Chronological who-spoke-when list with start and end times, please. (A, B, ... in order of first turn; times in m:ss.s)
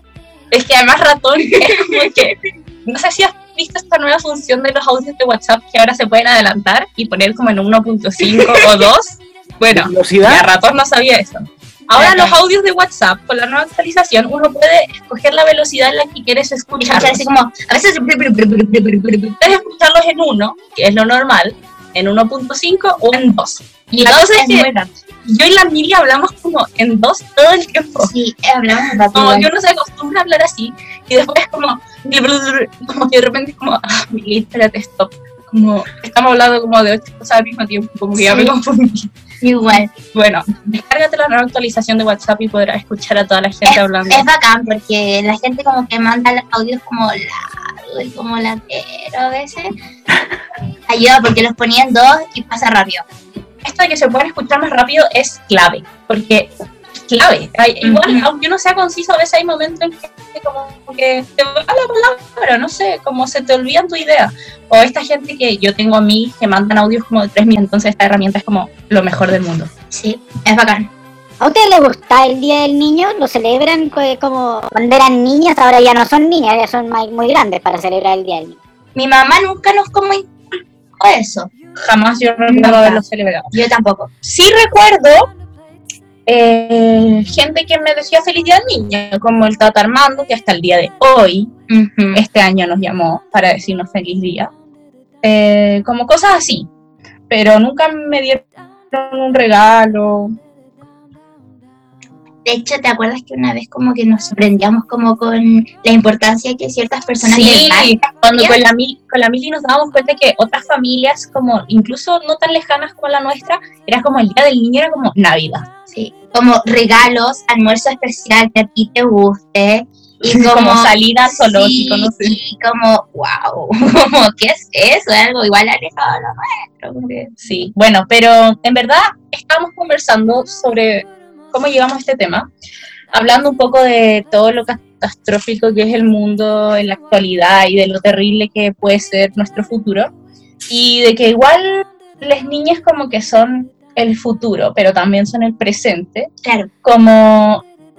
0:00.5-0:17.3 A
0:12.0-0:12.4 B
0:16.8-0:19.2 B
0:19.2-0:28.1 A
0:23.9-0:24.7 B
0:28.0-0:29.5 B
0:28.9-0:39.1 A
0:38.1-0:38.5 B
0:39.4-0:39.9 B
0:39.8-0:44.2 A
0:43.7-0:49.7 B
0:50.9-0:53.0 B
0:53.6-0:56.5 A
0:57.1-1:09.7 A
0:57.8-0:58.2 B
1:09.9-1:10.9 B
1:11.4-1:18.6 C
1:19.0-1:21.5 B
1:21.8-1:23.5 A
1:22.5-1:24.1 B
1:24.2-1:25.2 A
1:26.2-1:31.5 A
1:31.7-1:32.2 B
1:32.1-1:34.5 A
1:35.2-1:36.7 A
1:37.3-1:40.3 A
1:42.4-1:48.6 B
1:47.2-1:55.6 A
1:55.9-2:07.3 B
2:00.2-2:02.4 A
2:07.4-2:12.5 A
2:13.1-2:20.1 A
2:20.7-2:26.3 A
2:26.4-2:26.7 B
2:26.8-2:27.6 A